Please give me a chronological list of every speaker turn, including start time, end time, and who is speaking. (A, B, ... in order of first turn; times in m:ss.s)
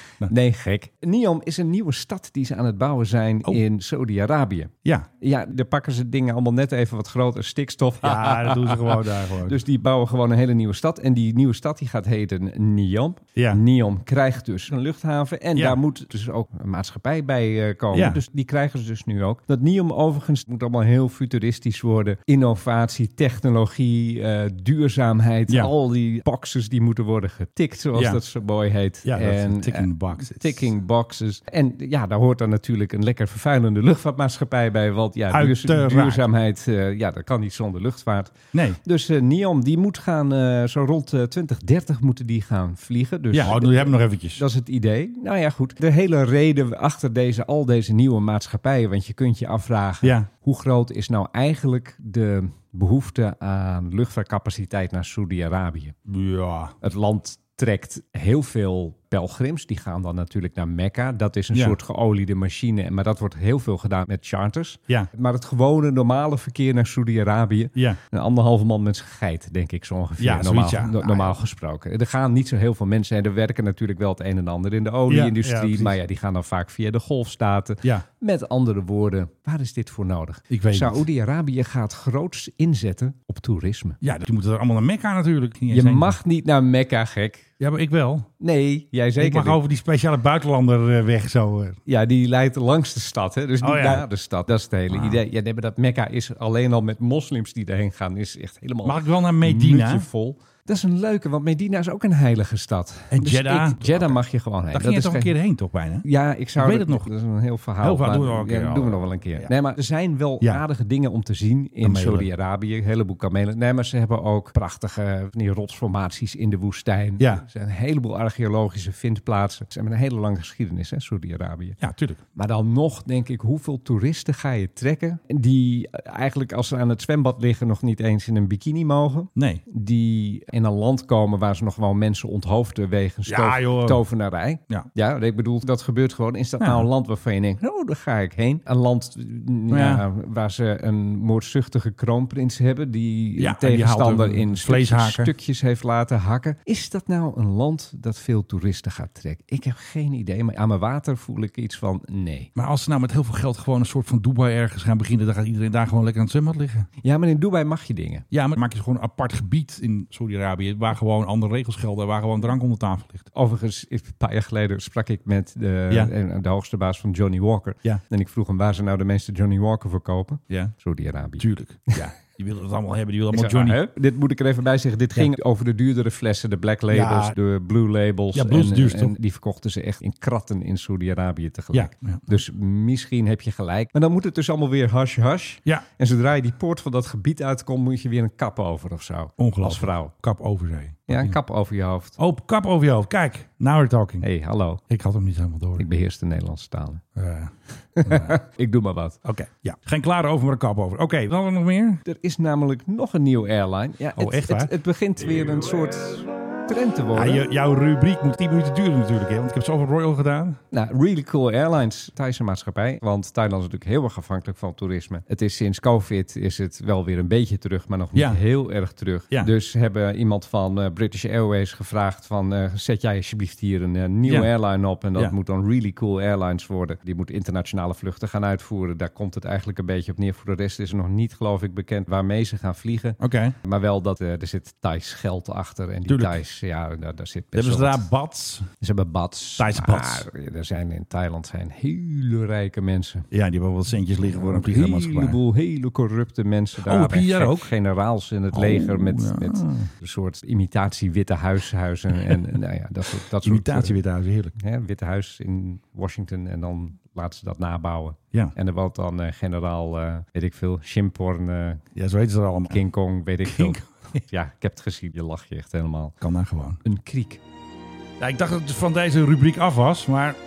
0:00.2-0:56.0 A
0:08.0-0:09.6 B
0:13.4-0:13.6 B
0:17.9-0:18.2 B
0:28.0-0:28.2 B
0:29.0-0:30.7 B
0:35.3-0:36.2 B
0:38.5-0:38.8 B
0:43.3-0:44.4 B
0:50.0-0:50.3 B
0:56.1-0:56.7 B
0:56.8-1:24.0 A
1:10.2-1:11.4 B
1:15.1-1:16.0 B
1:20.5-1:21.0 B
1:24.0-1:26.2 B
1:25.7-1:27.5 A
1:27.6-1:28.3 B
1:28.4-1:29.6 A
1:29.2-1:31.8 B
1:31.9-1:45.3 A
1:33.6-1:34.1 B
1:34.9-1:35.2 B
1:38.8-1:40.1 B
1:43.1-1:44.2 B
1:44.7-1:47.1 B
1:46.0-2:01.8 A
1:47.8-1:49.5 B
1:51.8-1:52.3 B
1:57.2-1:57.4 B
2:01.8-2:02.2 B
2:02.4-2:32.5 A
2:09.4-2:09.6 B
2:13.3-2:14.0 B
2:16.6-2:16.9 B
2:19.7-2:20.0 B
2:23.4-2:25.3 B
2:32.6-2:36.9 B
2:37.0-2:38.2 A
2:38.3-2:43.3 B
2:43.3-2:51.9 A
2:51.4-2:53.8 B
2:53.3-3:10.1 A
2:56.9-2:57.4 B
2:58.4-2:59.1 B
3:01.7-3:02.4 B
3:09.4-3:11.4 B
3:11.1-3:12.2 A
3:12.2-3:14.2 B
3:14.2-3:14.8 A
3:14.9-3:15.9 B
3:15.8-3:17.0 A
3:17.2-3:18.4 B
3:18.0-3:19.2 A
3:19.2-3:22.0 B
3:22.0-3:27.4 A
3:24.2-3:24.7 B
3:27.1-3:30.6 B
3:30.7-3:58.1 A
3:38.2-3:38.4 B
3:53.2-3:53.6 B
3:56.1-3:56.4 B
3:57.6-3:58.7 B
3:58.8-4:03.3 A
3:59.6-4:00.2 B
4:03.3-4:05.4 B
4:04.2-4:14.0 A
4:06.8-4:07.7 B
4:08.5-4:09.9 B
4:13.4-4:14.6 B
4:14.6-4:21.8 A
4:22.0-4:22.8 B
4:22.7-4:26.2 A
4:23.4-4:23.9 B
4:26.2-4:26.8 B
4:26.8-4:27.4 A
4:28.2-4:30.4 B